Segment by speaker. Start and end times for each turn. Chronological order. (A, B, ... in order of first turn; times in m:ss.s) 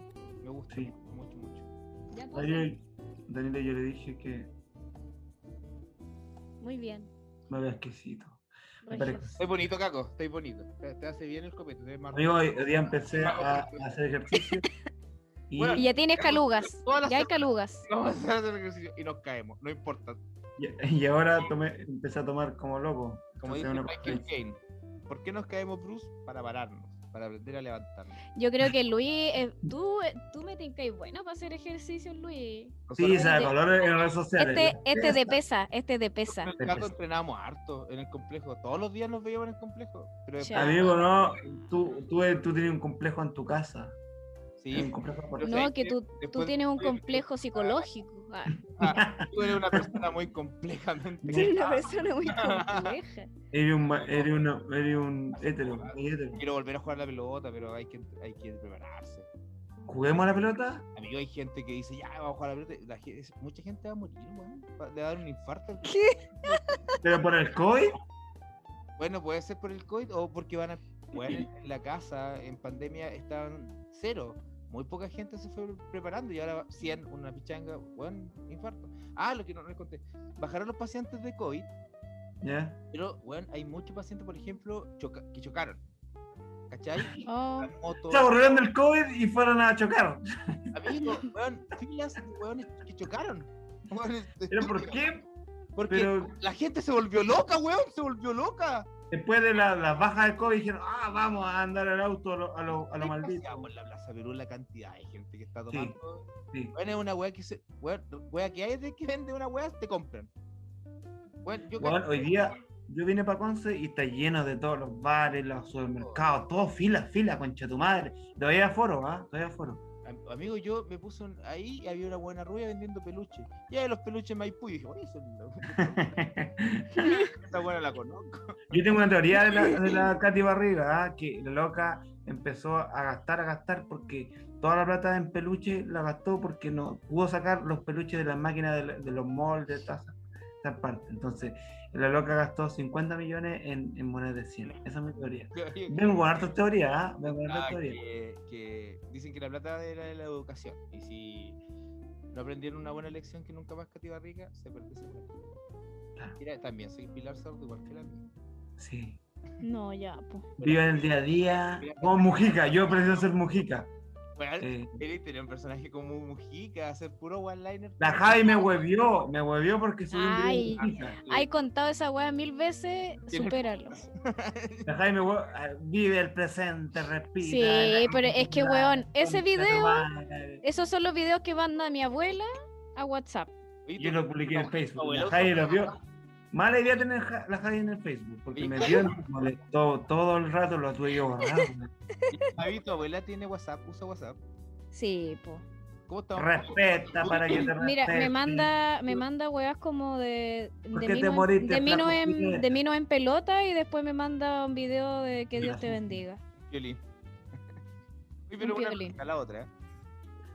0:00.4-0:01.7 A
0:02.1-0:02.7 B
0:02.3-0:04.5 C
0:06.6-0:07.1 B
0:07.5-0:09.5 C
0:08.8-0:09.4 B
0:09.0-0:12.5 A
0:12.1-0:14.6 C
0:13.1-0:13.9 A
0:15.5-0:15.9 C
0:15.5-0:20.2 A
0:15.7-0:17.8 B
0:20.6-0:24.3 C
0:23.4-0:28.2 A
0:28.4-0:33.5 B
0:32.9-0:33.5 A
0:32.9-0:35.4 C
0:34.4-0:36.5 B
0:36.3-0:41.0 A
0:36.6-0:36.9 C
0:40.4-0:40.8 B
0:40.5-0:44.0 C
0:44.6-0:47.8 A
0:44.7-0:45.6 C
0:45.4-0:48.6 B
0:48.8-0:53.0 A
0:48.8-0:50.0 C
0:51.2-0:51.6 C
0:51.3-0:53.3 B
0:53.5-0:56.4 C
0:53.8-0:54.4 A
0:55.4-0:59.3 A
0:59.9-1:00.8 C
1:00.9-1:06.8 A
1:05.8-1:06.8 B
1:07.0-1:07.9 C
1:09.0-1:21.7 A
1:22.4-1:22.8 C
1:22.9-1:25.8 A
1:26.7-1:28.7 A
1:27.2-1:27.7 B
1:28.1-1:30.2 C
1:30.7-1:35.0 A
1:34.5-1:35.3 C
1:35.8-1:38.9 A
1:35.9-1:36.3 C
1:39.1-1:43.7 C
1:42.9-1:50.3 A
1:45.7-1:46.0 C
1:51.4-1:52.5 A
1:51.8-1:59.8 C
1:56.0-1:56.3 A
2:00.0-2:06.2 A
2:05.8-2:07.1 C
2:07.0-2:08.8 A
2:08.7-2:28.0 C
2:25.5-2:26.0 A
2:27.4-2:31.6 A
2:32.3-2:35.5 A
2:36.4-2:38.2 A
2:38.8-2:39.2 C
2:39.6-2:40.5 B
2:40.6-2:43.9 C
2:40.6-2:41.1 A
2:41.8-2:43.1 A
2:44.4-2:48.7 A
2:44.6-2:45.0 C
2:48.0-2:51.2 C
2:50.1-2:54.0 B
2:50.8-2:51.5 A
2:53.3-2:54.9 A
2:54.8-3:00.6 C
2:57.4-3:00.1 B
3:00.6-3:03.5 B
3:03.8-3:05.9 A
3:04.0-3:05.9 C
3:06.5-3:11.9 C
3:08.5-3:09.1 A
3:12.2-3:12.5 B
3:12.3-3:14.4 A
3:14.9-3:15.6 B
3:16.1-3:17.7 A
3:16.4-3:18.7 C
3:17.8-3:26.4 B
3:20.9-3:22.6 C
3:25.6-3:26.2 C
3:26.6-3:27.0 A
3:28.5-3:29.7 A
3:28.6-3:29.1 B